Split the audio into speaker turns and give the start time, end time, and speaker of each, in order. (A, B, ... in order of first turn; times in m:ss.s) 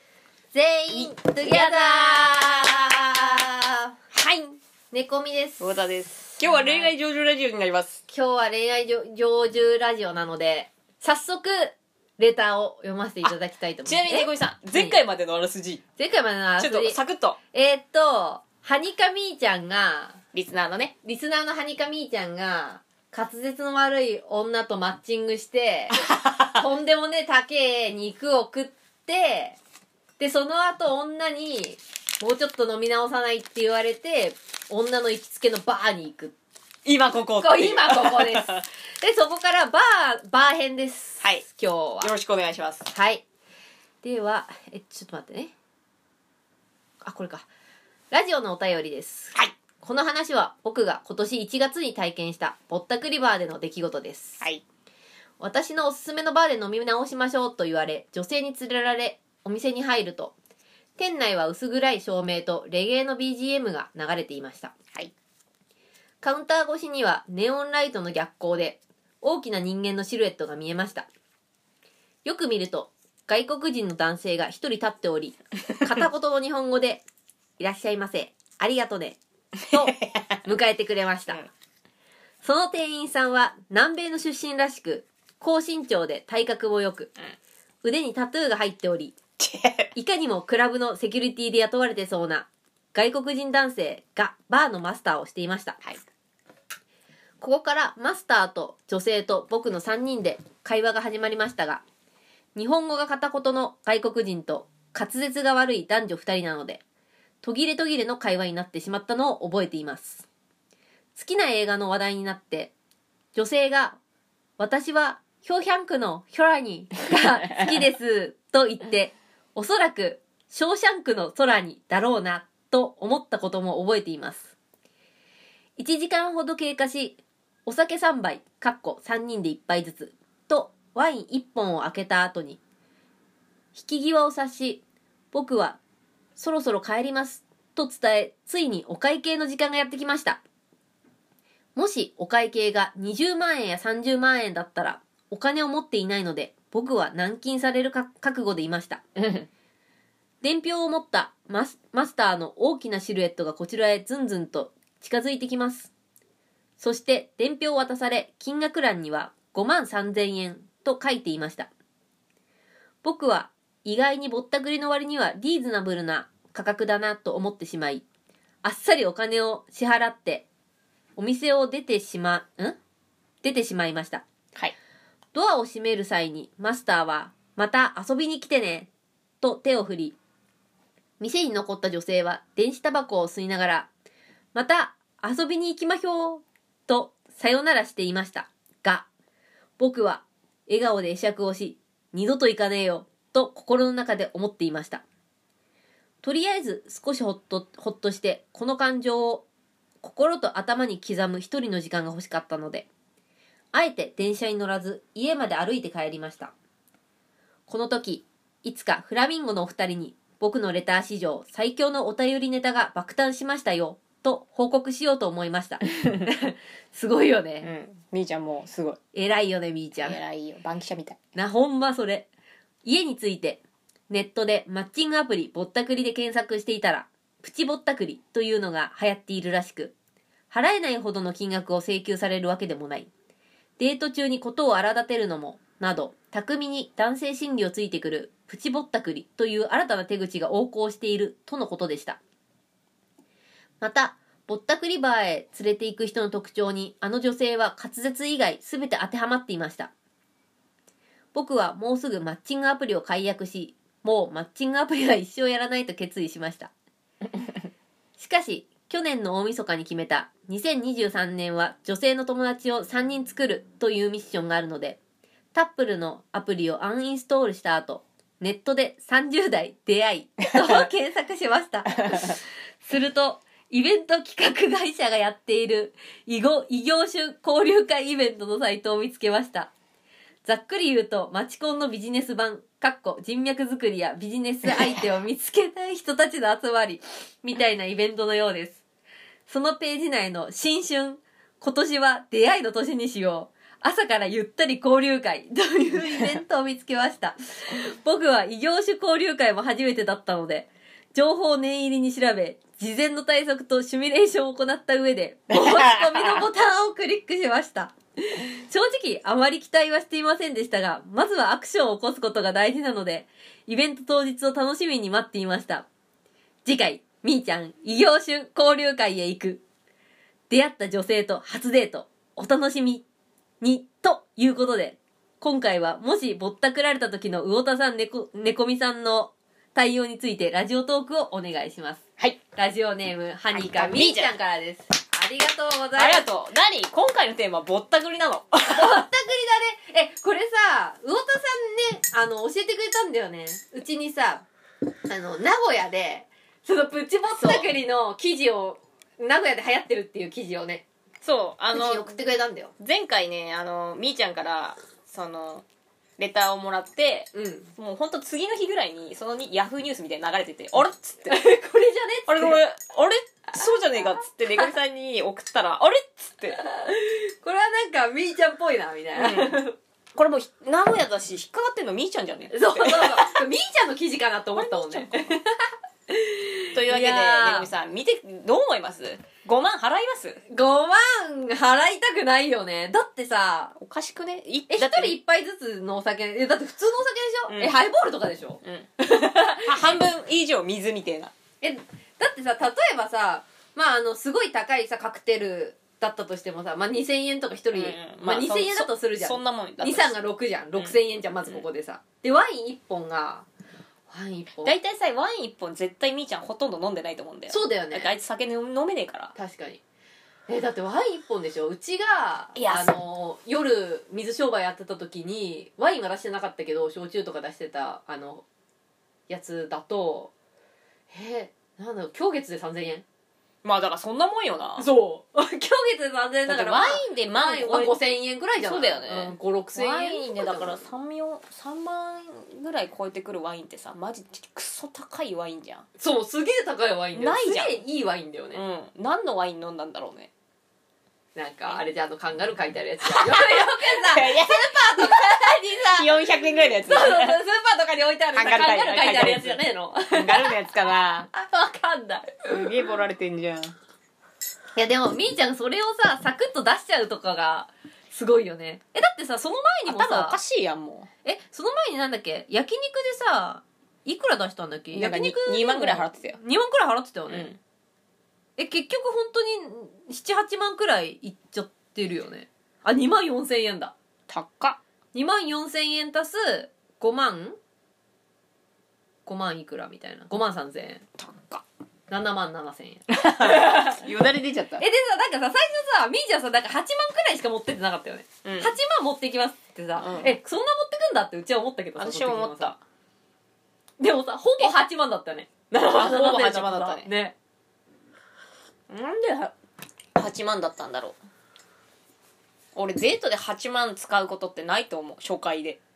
0:00.5-0:04.0 A
0:00.9-0:03.2 B
0:04.1-0:04.6 B
0:04.9-0:05.7 A
0:05.6-0:08.0 B
0:06.4-0:06.9 A
0:08.1-0:15.0 A
0:13.8-0:15.8 B
0:16.0-0:17.0 A
0:16.6-0:17.4 B
0:17.5-0:20.2 A
0:20.3-0:20.9 B
0:21.0-0:29.6 A
0:26.1-0:26.6 B
0:30.2-0:36.3 A
0:36.8-0:38.6 B
0:37.4-0:42.1 A
0:42.0-0:42.9 B
0:42.9-0:43.2 A
0:44.0-0:45.5 A
0:47.0-0:47.5 A
0:48.1-0:54.4 A
0:55.4-1:00.3 A
1:01.0-1:04.7 A
1:06.2-1:11.1 A
1:12.2-1:17.0 A
1:17.6-1:19.2 A
1:19.6-1:20.4 B
1:19.7-1:21.4 A
1:22.4-1:27.1 A
1:27.8-1:29.2 A
1:29.4-1:29.9 B
1:29.9-1:35.8 A
1:37.4-1:41.8 A
1:42.5-1:46.8 A
1:47.4-1:50.2 A
1:51.2-1:52.7 A
1:53.3-1:54.0 A
1:54.6-2:04.5 A
2:05.8-2:12.6 A
2:13.7-2:15.8 A
2:16.4-2:20.4 A
2:21.8-2:29.0 A
2:29.2-2:29.4 B
2:30.4-2:35.9 A
2:36.8-2:41.7 A
2:43.0-2:48.0 A
2:48.6-2:50.4 A
2:51.2-2:52.8 A
2:53.4-2:54.2 A
2:55.3-2:58.9 A
2:59.4-3:00.2 A
3:01.2-3:03.9 A
3:04.5-3:09.1 A
3:09.8-3:15.0 A
3:16.2-3:19.4 A
3:20.0-3:22.9 A
3:23.7-3:26.5 A
3:27.7-3:37.7 A
3:37.6-3:39.0 B
3:39.1-3:40.2 A
3:40.0-3:41.2 B
3:41.3-3:42.3 A
3:42.8-3:49.9 A
3:50.5-3:53.1 A
3:53.8-4:02.2 A
4:03.8-4:09.9 A
4:11.3-4:16.7 A
4:18.2-4:25.0 A
4:25.5-4:39.7 A
4:40.4-4:48.8 A
4:49.5-5:15.8 A
5:05.5-5:06.4 B
5:16.6-5:19.6 A
5:20.5-5:23.0 A
5:23.6-5:32.0 A
5:32.5-5:36.2 A
5:33.5-5:34.4 B
5:36.0-5:39.0 B
5:38.6-5:44.4 A
5:45.1-5:50.8 A
5:47.3-5:47.7 B
5:51.2-5:52.2 B
5:51.7-5:52.7 A
5:52.8-5:55.6 B
5:56.2-6:01.4 B
5:57.3-5:57.7 A
6:01.3-6:02.6 A
6:02.2-6:06.6 B
6:06.6-6:09.8 A
6:09.1-6:09.6 B
6:10.2-6:13.4 B
6:12.5-6:17.7 A
6:14.6-6:15.2 B
6:16.7-6:20.4 B
6:20.5-6:23.7 A
6:23.8-6:25.2 B
6:24.7-6:29.9 A
6:27.5-6:27.8 B
6:28.6-6:28.9 B
6:29.6-6:31.3 B
6:31.6-6:43.4 A
6:37.7-6:40.2 B
6:40.8-6:41.6 B
6:44.1-6:44.7 A
6:44.6-6:49.3 B
6:47.5-6:48.1 A
6:49.3-6:49.8 A
6:50.5-6:58.4 A
6:52.5-6:52.9 B
6:59.3-7:00.3 A
7:01.1-7:03.0 A
7:03.6-7:04.9 B
7:04.8-7:10.9 A
7:06.5-7:08.0 B
7:08.6-7:15.8 B
7:16.0-7:18.6 A
7:17.1-7:17.8 B
7:18.5-7:20.3 B
7:21.3-7:30.6 A
7:23.0-7:27.4 B
7:28.3-7:31.3 B
7:31.3-7:32.7 A
7:32.5-7:33.7 B
7:34.8-7:40.4 A
7:39.9-7:41.1 B
7:41.2-7:47.5 A
7:44.9-7:46.4 B
7:47.3-7:47.6 B
7:48.6-7:53.9 A
7:54.3-7:54.8 B
7:55.1-7:57.6 A
7:59.2-8:01.0 A
8:01.2-8:01.6 B
8:02.1-8:04.0 A
8:03.1-8:04.8 B
8:04.8-8:12.8 A
8:08.4-8:08.7 B
8:10.0-8:10.3 B
8:12.0-8:12.7 B
8:14.0-8:17.3 A
8:15.9-8:17.1 B
8:18.9-8:19.5 A
8:20.2-8:21.2 B
8:22.7-8:25.8 B